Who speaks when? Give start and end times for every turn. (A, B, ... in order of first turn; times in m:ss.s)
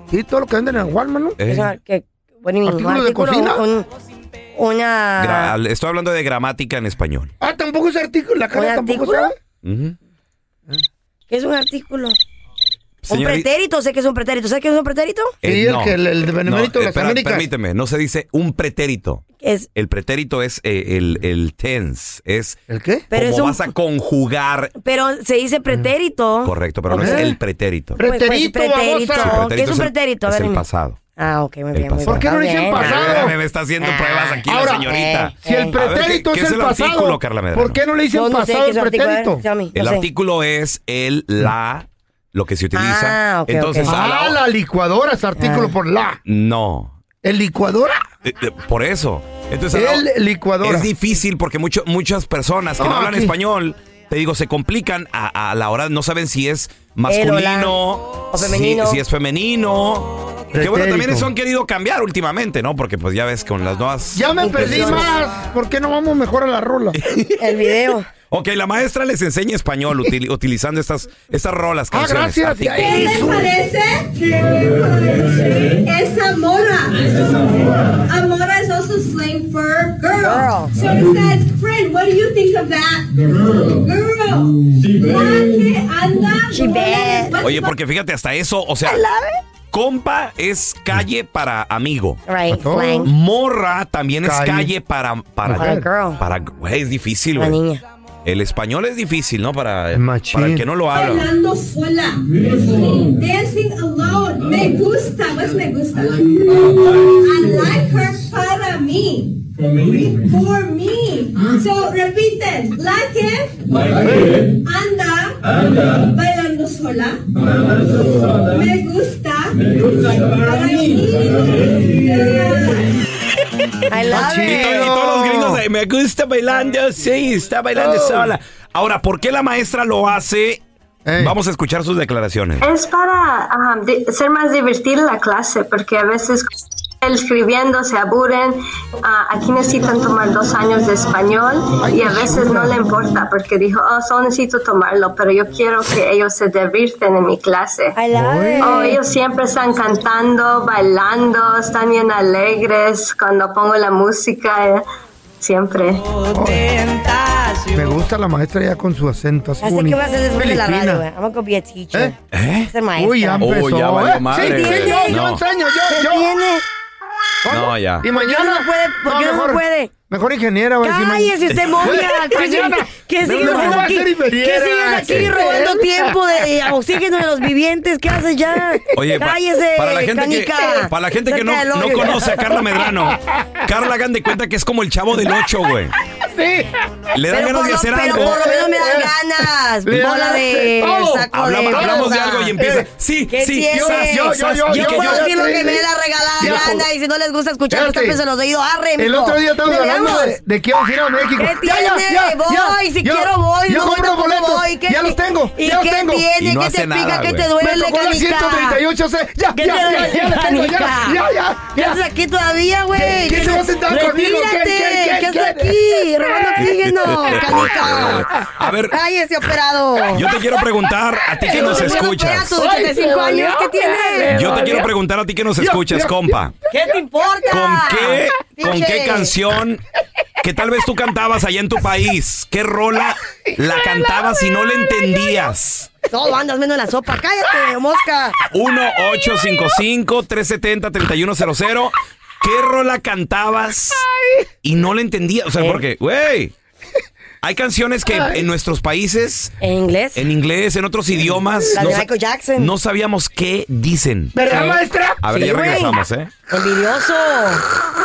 0:00.1-0:01.4 A
0:01.4-0:01.7 B
0:01.5-0:03.9 C
0:02.6-0:03.6 A
0:04.6-0:05.5 C
0:05.2-0:07.3 B
0:07.4-0:09.4 A
0:08.5-0:09.3 C
0:09.6-0:10.0 B
0:11.3-0:12.2 C
0:13.0-0:13.5 B
0:13.1-0:15.3 C
0:15.4-0:19.2 B
0:15.4-0:17.5 A
0:19.4-0:19.7 C
0:19.8-0:22.6 B
0:22.7-0:23.1 A
0:23.1-0:23.7 C
0:23.1-0:24.7 B
0:24.8-0:27.3 C
0:26.4-0:28.0 B
0:27.0-0:27.4 A
0:28.0-0:29.5 A
0:28.0-0:30.6 C
0:29.1-0:31.0 B
0:31.2-0:35.8 C
0:31.7-0:37.8 B
0:32.1-0:33.4 A
0:34.5-0:39.4 A
0:38.1-0:40.0 C
0:39.7-0:44.4 B
0:42.7-0:43.9 C
0:43.8-0:46.2 A
0:45.4-0:45.7 C
0:46.3-0:47.0 B
0:47.2-0:47.9 A
0:48.2-0:50.0 B
0:49.7-0:50.9 A
0:50.6-1:05.1 B
0:52.8-0:53.3 A
0:57.1-0:57.8 C
0:58.3-0:59.0 C
1:00.5-1:01.3 A
1:04.1-1:07.0 A
1:04.4-1:05.1 C
1:06.9-1:07.7 B
1:07.4-1:08.1 C
1:08.3-1:13.3 B
1:11.9-1:13.5 A
1:12.7-1:27.7 D
1:20.2-1:20.7 C
1:26.5-1:27.4 C
1:27.4-1:29.0 B
1:28.8-1:29.4 C
1:29.7-1:32.2 B
1:32.3-1:33.1 C
1:32.5-1:33.1 A
1:33.0-1:37.6 B
1:34.2-1:34.7 A
1:35.4-1:35.9 A
1:35.6-1:36.2 C
1:37.4-1:37.8 C
1:38.2-1:41.3 B
1:39.9-1:40.6 A
1:40.9-2:03.0 D
2:03.9-2:04.8 C
2:04.0-2:05.6 A
2:04.2-2:10.6 B
2:07.8-2:08.4 A
2:11.0-2:11.4 A
2:11.2-2:12.6 B
2:12.6-2:16.5 E
2:17.0-2:28.0 E
2:21.8-2:22.8 A
2:28.0-2:29.0 C
2:28.1-2:28.8 A
2:28.6-2:34.8 E
2:35.4-2:36.0 E
2:36.3-2:36.7 A
2:37.7-2:41.1 A
2:39.6-2:42.2 C
2:42.3-2:42.7 B
2:42.7-2:43.5 C
2:43.0-2:46.4 A
2:43.4-2:45.4 B
2:44.3-2:46.6 C
2:47.4-2:56.2 A
2:47.5-2:48.1 B
2:48.1-2:49.9 C
2:50.8-3:02.5 C
2:51.5-2:52.2 B
2:53.2-2:53.9 B
2:58.9-3:06.0 B
3:06.2-3:06.7 A
3:07.1-3:08.5 B
3:07.3-3:12.5 C
3:08.1-3:12.9 A
3:11.3-3:15.4 B
3:13.3-3:20.4 C
3:13.7-3:15.9 A
3:16.4-3:16.9 A
3:17.7-3:18.2 A
3:19.0-3:26.3 A
3:21.4-3:28.8 C
3:26.4-3:27.5 B
3:27.6-3:32.0 A
3:29.5-3:31.2 C
3:31.8-3:38.4 C
3:32.9-3:35.8 A
3:36.6-3:39.0 B
3:37.4-3:38.2 A
3:38.9-3:40.2 C
3:40.1-3:42.6 B
3:41.4-3:42.0 A
3:41.5-3:44.4 C
3:42.5-3:44.9 A
3:44.3-3:46.5 B
3:45.6-3:47.0 A
3:46.7-3:49.3 C
3:47.5-3:49.8 B
3:50.4-3:55.9 B
3:56.1-3:58.4 C
3:58.5-4:04.1 B
4:04.6-4:06.5 B
4:07.4-4:09.6 B
4:08.1-4:08.4 A
4:09.6-4:10.2 C
4:10.2-4:14.4 B
4:11.7-4:12.0 A
4:11.7-4:12.7 C
4:14.3-4:15.2 A
4:14.4-4:16.0 C
4:15.2-4:16.3 B
4:16.5-4:17.6 C